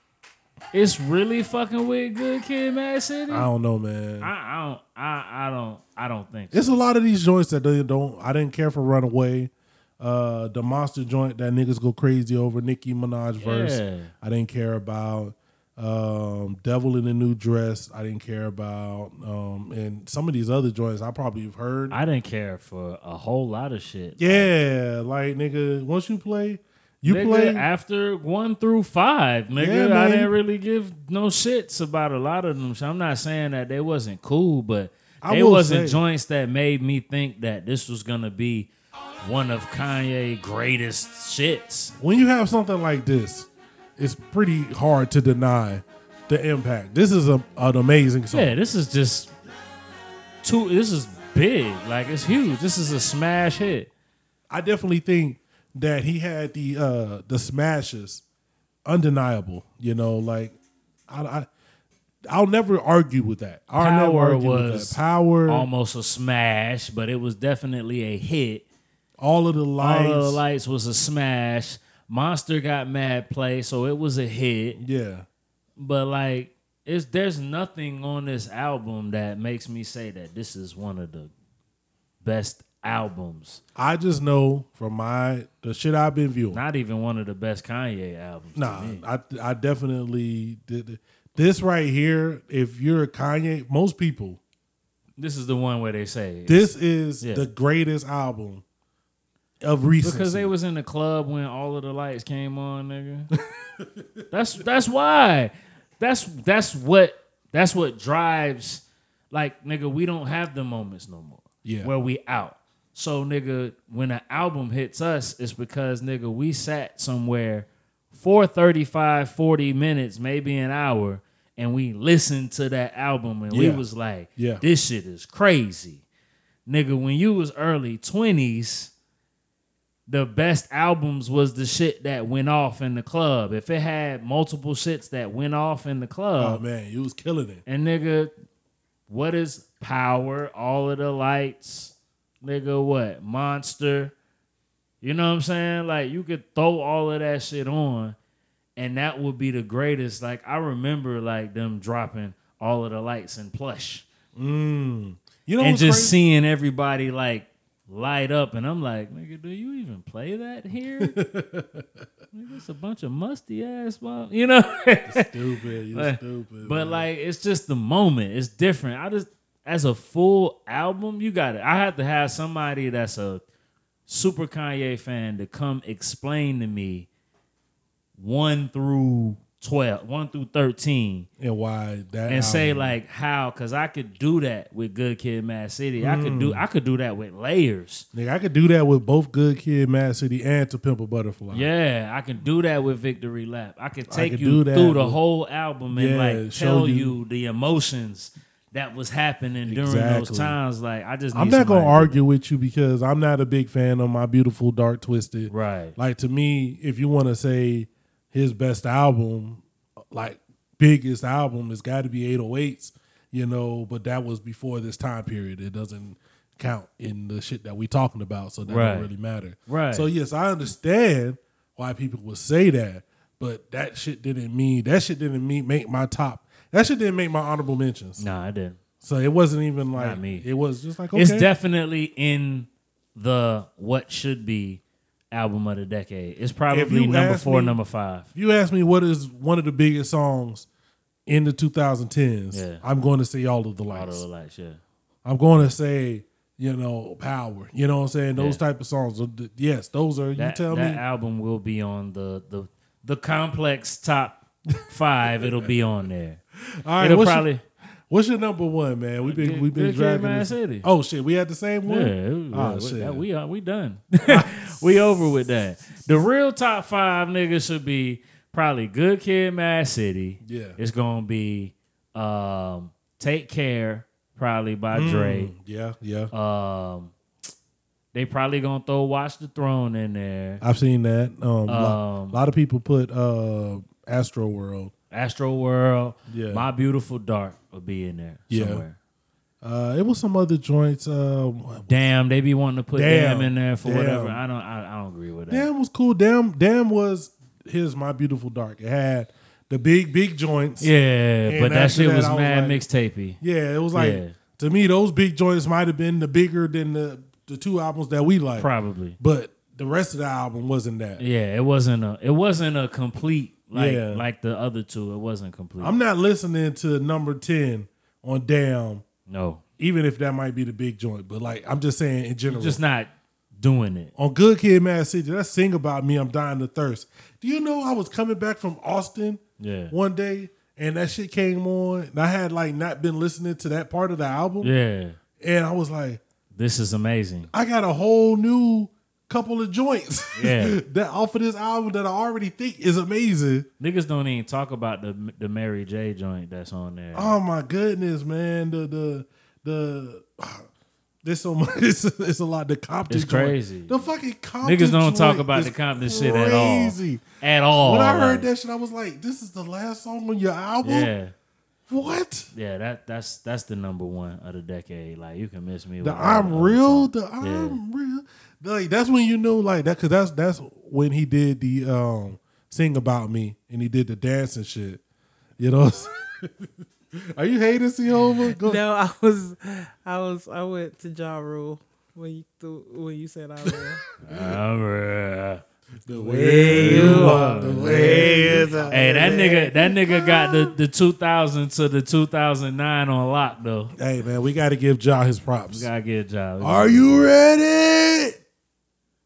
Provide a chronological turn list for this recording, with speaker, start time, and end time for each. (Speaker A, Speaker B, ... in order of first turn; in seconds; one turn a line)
Speaker A: 0.7-3.5
Speaker B: 3.3-4.3
Speaker A: 4.2-6.7
Speaker B: 6.5-22.0
Speaker A: 13.4-14.1
Speaker A: 21.9-24.5
Speaker B: 24.2-27.6
Speaker A: 27.0-38.7
Speaker B: 29.6-30.3
Speaker B: 35.2-36.0
Speaker A: 39.2-41.9
Speaker B: 42.0-48.5
Speaker A: 48.3-49.3
Speaker A: 50.4-53.9
Speaker B: 54.5-58.2
Speaker B: 58.9-60.5
Speaker B: 61.1-61.5
Speaker B: 62.3-65.7
Speaker A: 63.8-68.6
Speaker B: 69.2-70.4
Speaker A: 69.8-74.8
Speaker B: 74.8-75.2
Speaker A: 75.8-81.3
Speaker A: 82.2-83.6
Speaker B: 83.8-86.6
Speaker A: 86.5-89.0
Speaker B: 88.5-94.4
Speaker A: 95.2-97.5
Speaker B: 96.5-98.6
Speaker B: 99.6-100.5
Speaker A: 100.0-103.3
Speaker A: 104.3-126.0
Speaker B: 111.6-111.9
Speaker B: 123.5-123.8
Speaker B: 124.3-124.6
Speaker A: 126.7-128.9
Speaker A: 130.1-136.6
Speaker B: 136.4-137.6
Speaker A: 137.7-138.3
Speaker A: 139.1-144.1
Speaker A: 145.0-148.2
Speaker A: 148.8-154.1
Speaker B: 154.3-156.2
Speaker A: 155.6-161.2
Speaker B: 161.0-161.9
Speaker A: 162.3-165.3
Speaker B: 165.1-167.0
Speaker A: 165.9-173.4
Speaker A: 174.1-177.1
Speaker A: 178.2-181.3
Speaker B: 181.4-182.9
Speaker A: 182.3-188.1
Speaker B: 186.0-186.6
Speaker B: 188.1-191.7
Speaker A: 191.5-202.2
Speaker B: 194.1-195.2
Speaker B: 195.9-197.2
Speaker B: 199.7-200.6
Speaker B: 201.3-228.2
Speaker A: 205.5-206.0
Speaker A: 218.7-219.1
Speaker A: 219.7-220.1
Speaker A: 228.2-228.8
Speaker B: 229.0-231.5
Speaker A: 229.9-230.4
Speaker A: 231.1-234.8
Speaker A: 235.3-238.3
Speaker B: 236.7-237.8
Speaker B: 238.3-240.7
Speaker B: 241.3-244.2
Speaker A: 242.5-242.8
Speaker A: 243.9-244.8
Speaker B: 245.2-251.0
Speaker A: 248.3-248.6
Speaker A: 250.4-256.4
Speaker B: 255.4-255.7
Speaker B: 256.6-257.5
Speaker A: 257.0-257.6
Speaker B: 258.1-263.2
Speaker A: 259.2-260.9
Speaker A: 261.9-275.5
Speaker B: 264.2-264.7
Speaker B: 270.4-270.8
Speaker B: 274.9-276.3
Speaker A: 276.3-277.1
Speaker A: 278.1-280.6
Speaker B: 280.6-284.9
Speaker A: 281.7-282.4
Speaker A: 285.1-288.9
Speaker B: 286.3-286.6
Speaker B: 288.5-288.8
Speaker B: 289.6-292.0
Speaker A: 291.9-295.7
Speaker B: 292.9-294.4
Speaker B: 295.5-300.9
Speaker A: 300.8-303.4
Speaker B: 301.5-302.8
Speaker B: 303.4-308.7
Speaker A: 303.9-304.4
Speaker A: 308.6-309.2
Speaker B: 309.2-311.2
Speaker A: 311.2-316.0
Speaker B: 313.7-314.2
Speaker B: 315.8-319.0
Speaker A: 319.3-319.6
Speaker B: 319.8-322.8
Speaker A: 322.5-324.1
Speaker B: 324.1-329.4
Speaker A: 329.6-329.9
Speaker B: 329.9-334.7
Speaker A: 334.6-335.2
Speaker B: 335.4-336.2
Speaker A: 336.5-337.5
Speaker B: 337.5-343.7
Speaker A: 340.4-340.8
Speaker A: 343.8-347.4
Speaker B: 347.1-350.6
Speaker B: 351.2-357.2
Speaker A: 353.1-354.1
Speaker A: 354.6-358.5
Speaker B: 357.8-361.1
Speaker A: 360.8-361.3
Speaker B: 361.9-362.5
Speaker A: 362.5-367.8
Speaker B: 366.0-375.0
Speaker B: 375.6-376.5
Speaker B: 377.3-378.8
Speaker C: 378.6-384.0
Speaker A: 384.2-385.6
Speaker B: 386.1-389.7
Speaker A: 386.1-393.9
Speaker C: 386.4-389.5
Speaker B: 393.9-395.9
Speaker A: 395.7-397.3
Speaker B: 396.6-398.4